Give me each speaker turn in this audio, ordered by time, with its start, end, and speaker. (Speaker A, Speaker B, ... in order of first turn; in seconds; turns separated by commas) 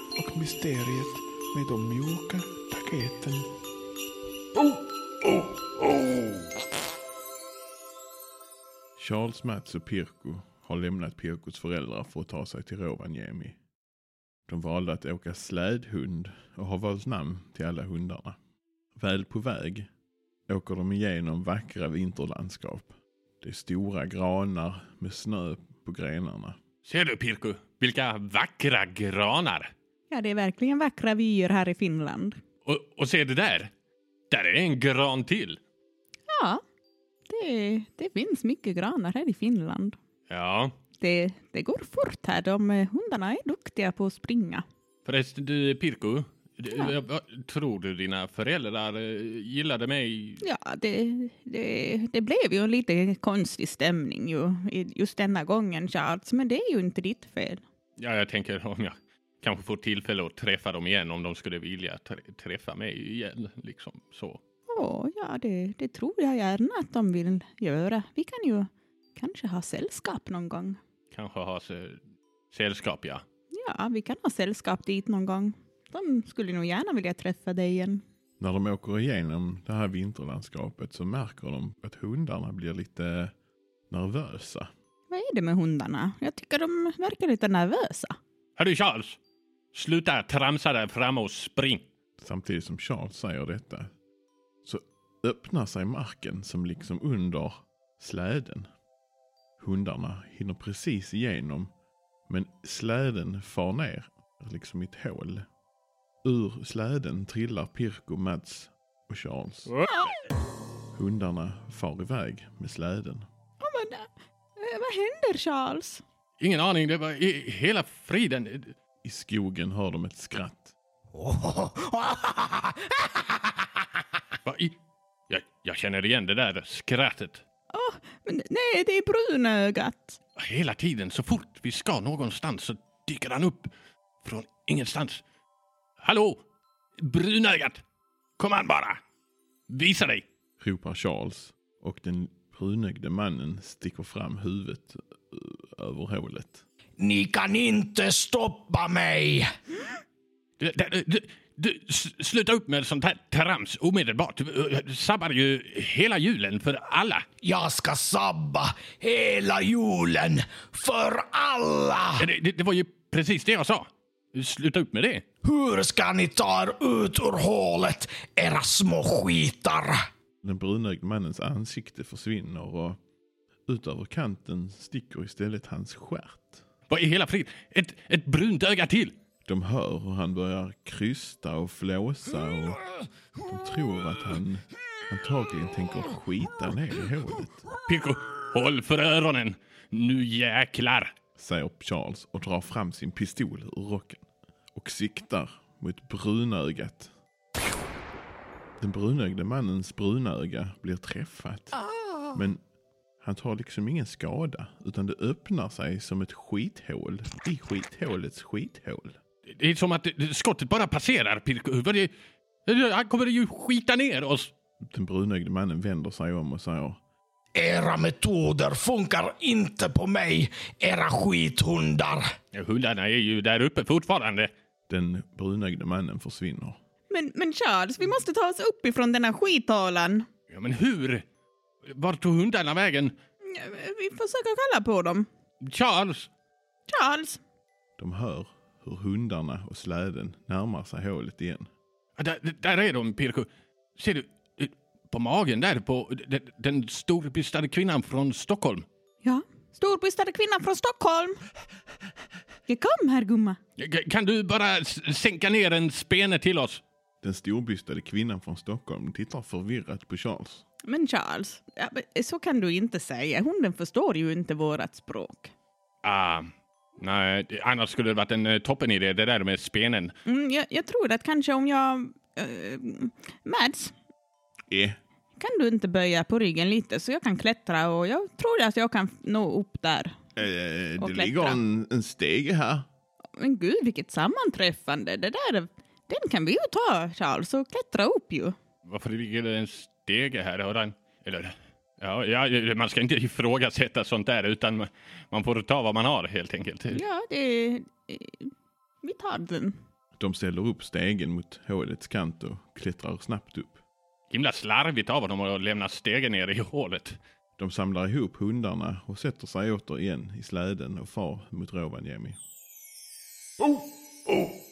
Speaker A: 0.2-3.5, Speaker B: 9.0-13.6, Speaker B: 14.5-18.4, Speaker B: 19.0-19.9, Speaker B: 20.5-26.6, Speaker C: 26.8-29.7, Speaker D: 30.1-32.4, Speaker C: 32.7-33.7, Speaker C: 34.3-35.6, Speaker D: 36.3-36.6, Speaker D: 37.3-40.0, Speaker C: 40.3-40.7, Speaker D: 41.0-44.6, Speaker C: 45.0-50.4, Speaker D: 50.4-57.6, Speaker C: 58.0-64.4, Speaker D: 64.7-70.8, Speaker C: 71.1-72.0, Speaker C: 72.5-73.2, Speaker D: 73.5-78.0, Speaker B: 78.4-83.3, Speaker B: 83.9-84.7, Speaker D: 85.1-88.1, Speaker C: 88.6-89.2, Speaker C: 89.7-91.8, Speaker B: 92.2-93.9, Speaker B: 94.6-98.7, Speaker B: 99.6-101.7, Speaker B: 102.3-105.5, Speaker B: 106.2-109.7, Speaker B: 111.0-113.3, Speaker D: 113.6-116.0, Speaker C: 116.4-118.7, Speaker B: 119.0-120.7, Speaker E: 121.2-122.9, Speaker C: 124.4-124.8, Speaker C: 125.3-127.4, Speaker D: 127.7-130.2, Speaker C: 130.4-133.7, Speaker C: 134.2-135.2, Speaker C: 136.0-136.4, Speaker C: 137.0-137.8, Speaker C: 138.4-139.0, Speaker C: 139.7-140.2, Speaker B: 140.6-146.7, Speaker E: 147.0-149.5, Speaker C: 150.6-157.2, Speaker E: 157.4-162.3, Speaker C: 162.2-165.2, Speaker E: 165.4-170.0, Speaker B: 170.4-173.0, Speaker B: 173.7-176.6, Speaker C: 176.9-179.2, Speaker B: 179.4-182.8, Speaker B: 183.5-187.7, Speaker C: 187.8-191.1, Speaker B: 191.3-194.2, Speaker B: 194.8-197.1, Speaker B: 198.8-201.8, Speaker B: 202.3-202.6, Speaker B: 203.2-209.2, Speaker C: 209.5-212.1, Speaker C: 212.7-214.5, Speaker B: 214.8-217.0, Speaker E: 217.6-222.2, Speaker C: 222.5-224.5, Speaker B: 224.9-226.8, Speaker D: 227.1-230.2, Speaker C: 230.5-231.2, Speaker C: 231.9-233.2, Speaker D: 233.5-235.3, Speaker C: 235.6-236.3, Speaker D: 236.9-237.4, Speaker B: 238.0-241.7, Speaker C: 242.2-248.9, Speaker D: 249.2-251.4, Speaker D: 252.7-253.6, Speaker C: 253.8-256.8, Speaker B: 257.2-260.6, Speaker D: 260.9-265.5, Speaker C: 266.0-270.1, Speaker D: 270.2-273.9, Speaker B: 274.7-275.0, Speaker D: 275.4-280.2, Speaker B: 280.4-282.9, Speaker D: 281.0-281.6, Speaker D: 283.4-288.6, Speaker C: 288.9-297.0, Speaker D: 296.9-298.5, Speaker D: 299.0-299.8, Speaker B: 300.2-303.8, Speaker C: 304.3-307.2, Speaker B: 307.6-312.4